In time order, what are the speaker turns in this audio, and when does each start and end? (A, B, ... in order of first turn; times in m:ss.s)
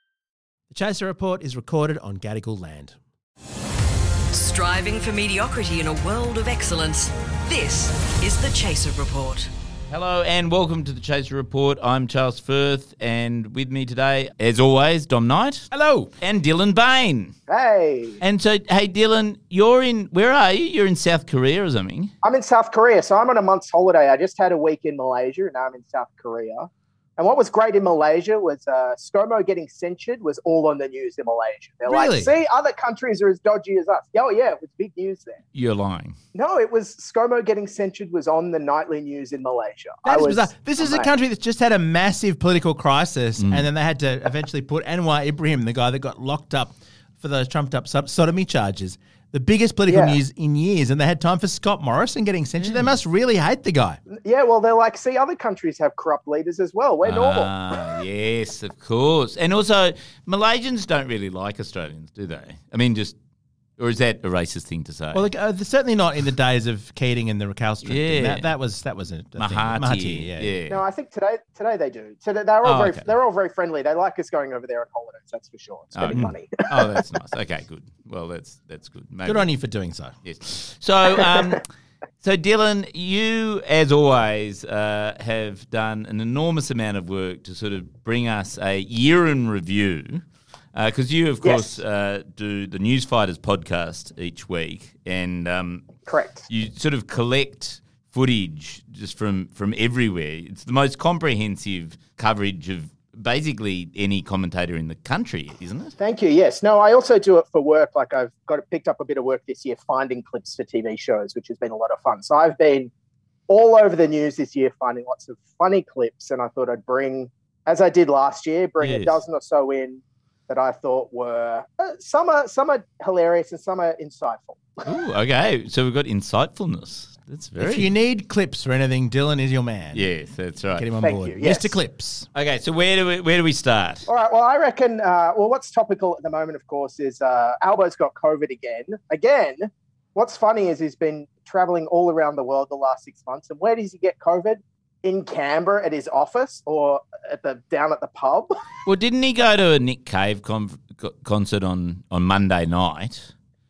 0:00.7-0:03.0 A
0:04.3-0:09.5 B
0:09.9-0:15.7 C
0:15.7-0:16.1 A
0:16.2-0:17.3 C
0:17.5-0:18.2 D
0:18.2-0:22.1 C
0:22.2-0:35.4 D
0:31.9-0:32.3 A
0:35.5-0:36.2 C
0:36.3-0:41.1 D
0:40.0-0:54.0 A
0:43.4-0:43.7 C
0:49.9-0:50.2 D
0:52.6-0:53.0 C
0:54.3-0:57.5 D
0:57.0-1:03.2 C
1:03.8-1:05.3 C
1:05.1-1:10.5 A
1:07.8-1:08.5 C
1:09.4-1:10.8 C
1:10.7-1:17.0 D
1:12.6-1:13.1 C
1:15.9-1:19.5 C
1:19.2-1:20.1 A
1:20.2-1:21.6 C
1:21.2-1:21.6 D
1:22.2-1:30.2 C
1:30.7-1:35.9 C
1:31.4-1:31.8 D
1:36.1-1:36.5 D
1:36.5-1:45.9 C
1:46.0-1:52.9 D
1:53.5-2:04.8 D
1:58.8-1:59.2 C
2:04.8-2:07.9 C
2:07.6-2:10.1 A
2:09.9-2:10.9 C
2:10.8-2:12.3 A
2:11.0-2:11.8 D
2:12.3-2:14.1 C
2:14.1-2:28.5 D
2:28.8-2:33.3 C